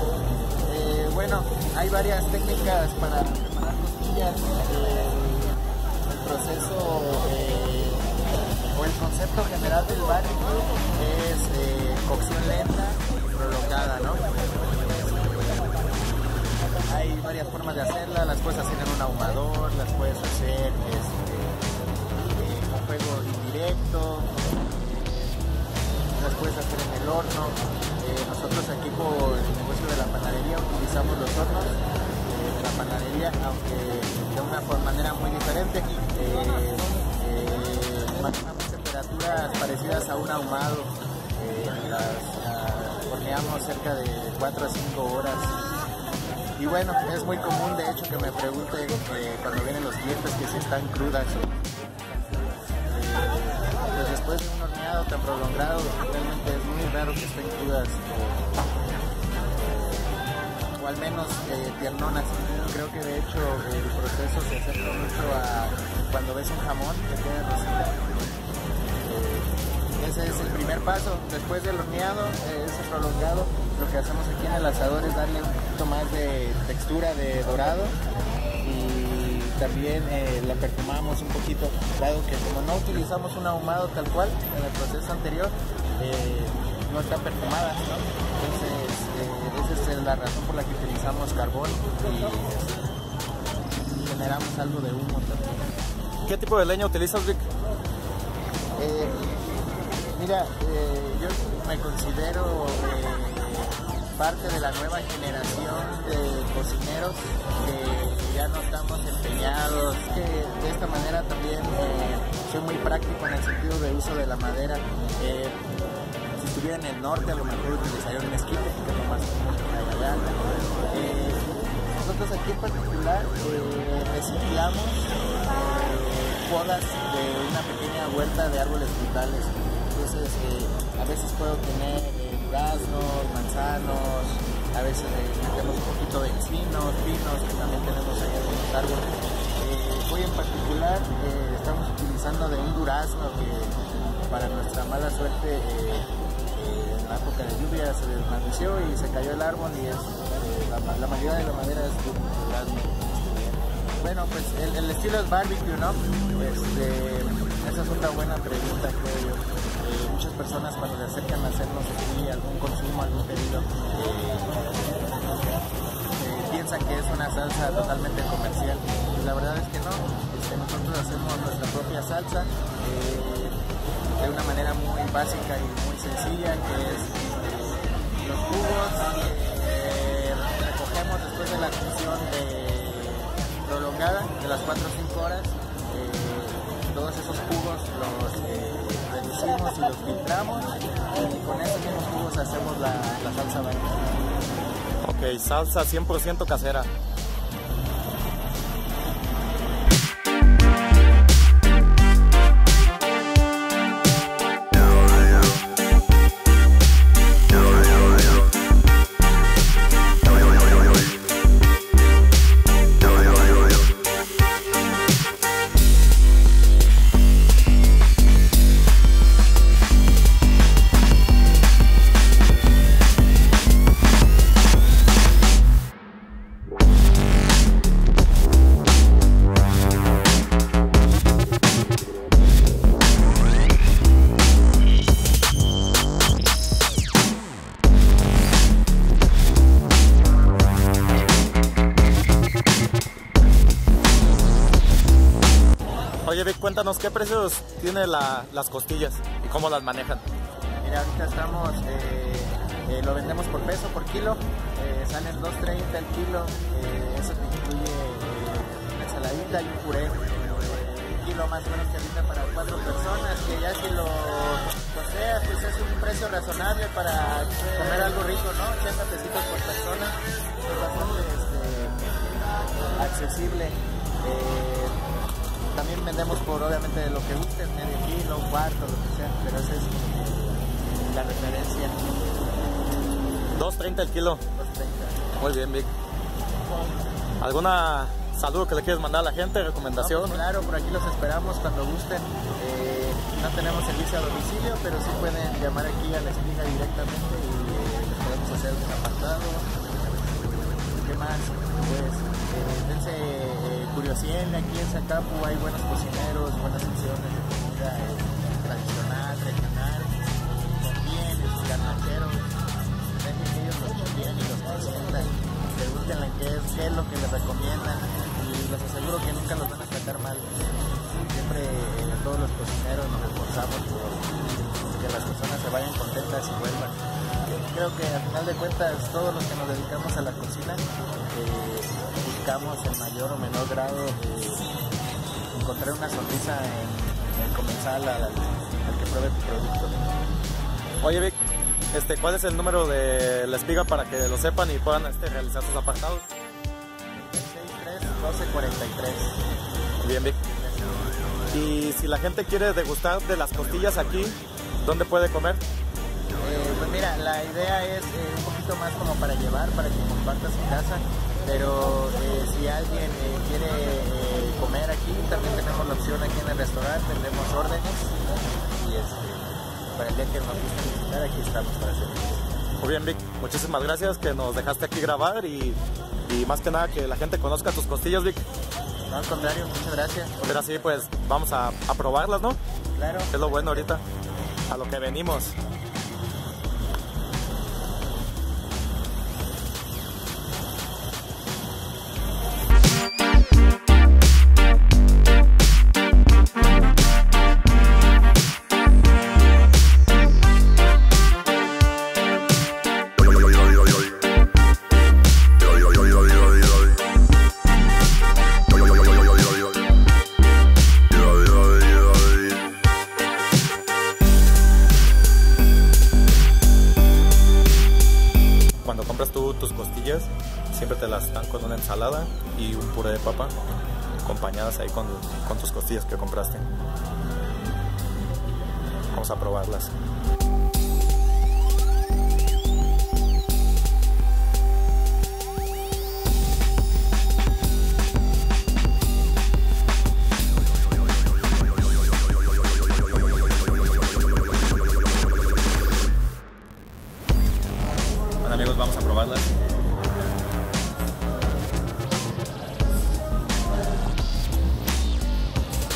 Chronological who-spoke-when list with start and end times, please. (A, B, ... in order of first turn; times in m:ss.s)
0:00.6-0:08.1 A
0:08.7-0:15.7 A
0:16.9-0:21.6 A
0:22.3-0:25.4 A
0:26.1-0:45.6 A
0:46.6-0:51.6 A
0:52.8-0:58.6 A
0:59.5-1:00.2 A
1:00.8-1:08.1 A
1:09.0-1:18.0 A
1:18.6-1:32.9 A
1:33.9-1:35.6 A
1:36.2-1:37.5 B
1:38.8-1:39.2 A
1:40.1-1:55.6 A
1:56.4-2:00.3 A
2:00.8-2:45.5 A
2:46.2-2:53.6 A
2:54.2-3:14.2 A
3:15.0-3:16.9 B
4:06.2-4:10.2 B
4:10.8-4:32.0 A
4:33.0-4:35.0 A
4:35.7-4:42.1 A
4:43.5-4:44.4 B
4:44.5-4:45.3 A
4:45.3-4:45.9 B
4:47.4-4:50.4 B
4:50.0-5:12.6 A
5:13.2-5:20.6 A
5:21.2-5:34.7 A
5:35.5-5:40.0 A
5:41.0-5:41.4 B
5:41.9-5:46.3 B
5:47.1-5:49.4 A
5:50.0-5:50.4 B
5:50.4-5:51.1 A
5:51.5-5:55.6 B
5:56.4-6:08.1 A
6:08.8-6:12.4 A
6:12.8-6:18.4 B
6:19.1-6:20.6 A
6:20.4-6:22.6 B
6:22.9-6:23.9 A
6:23.3-6:24.0 B
6:24.7-6:25.6 B
6:58.8-7:03.5 B
7:04.2-7:06.7 B
7:09.1-7:09.9 B
7:28.4-7:29.5 B